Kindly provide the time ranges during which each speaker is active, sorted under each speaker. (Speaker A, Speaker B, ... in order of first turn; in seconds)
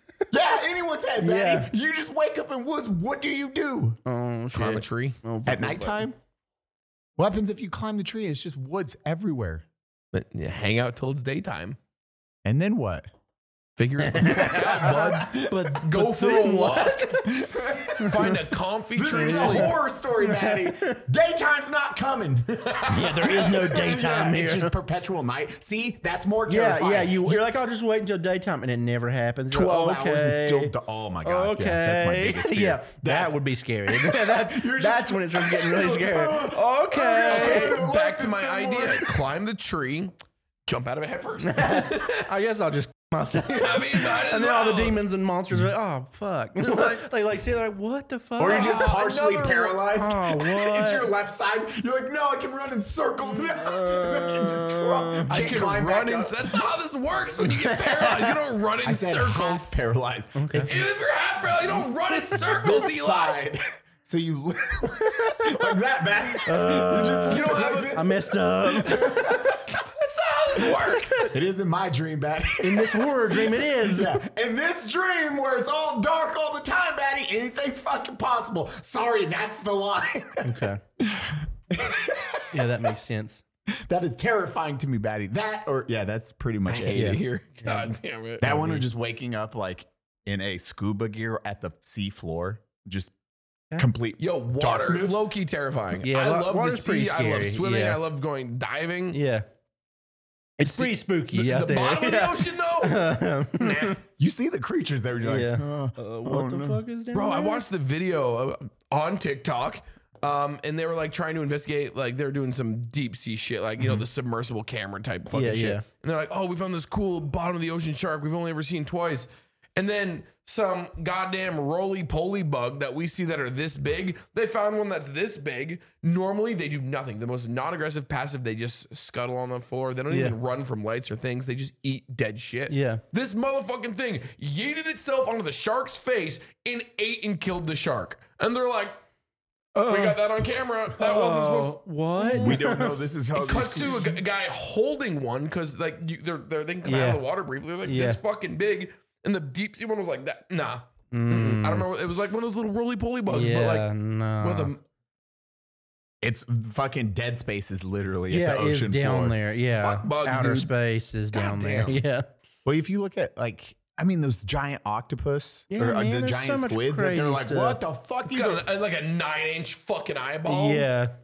Speaker A: 0.3-4.0, 5.5-6.2, 7.2-9.7, 12.4-13.1, 14.5-15.0, 17.2-18.4, 18.9-27.5, 29.5-33.4, 33.9-39.2, 48.4-56.6, 58.8-61.0, 62.4-69.6, 71.3-82.7, 83.7-87.2, 88.4-93.1, 93.8-95.3, 104.2-106.8, 142.3-144.2, 156.2-159.4, 162.7-168.7
Speaker B: 1.2-1.7, 4.0-6.1, 14.0-17.4, 17.9-18.3, 19.1-21.0, 22.9-24.7, 26.5-37.8, 41.4-49.0, 49.9-51.1, 53.4-55.6, 57.5-58.4, 60.4-60.7, 65.2-65.6, 66.4-69.6, 70.8-71.3, 72.6-74.2, 80.4-80.8, 82.5-83.4, 86.9-87.9, 88.5-88.8, 96.0-98.0, 99.1-99.5, 100.6-104.0, 105.2-107.6, 115.3-115.8, 130.1-130.4, 132.7-133.0, 139.8-140.2, 141.0-142.9, 146.8-147.2, 147.8-148.2, 151.1-151.9, 153.3-154.7, 158.3-162.3, 165.7-167.8, 170.5-171.1
Speaker C: 4.5-5.2, 10.1-11.8, 13.8-17.2, 17.9-19.7, 37.0-40.1, 40.7-42.3, 43.5-45.0, 46.6-47.0, 48.4-49.8, 55.3-59.8, 60.6-63.4, 67.3-68.0, 68.9-71.3, 86.7-88.7, 94.2-99.2, 100.6-104.0, 107.1-139.0, 139.8-142.6, 143.3-153.9, 154.4-154.8, 159.7-160.7, 161.3-162.0, 168.3-170.9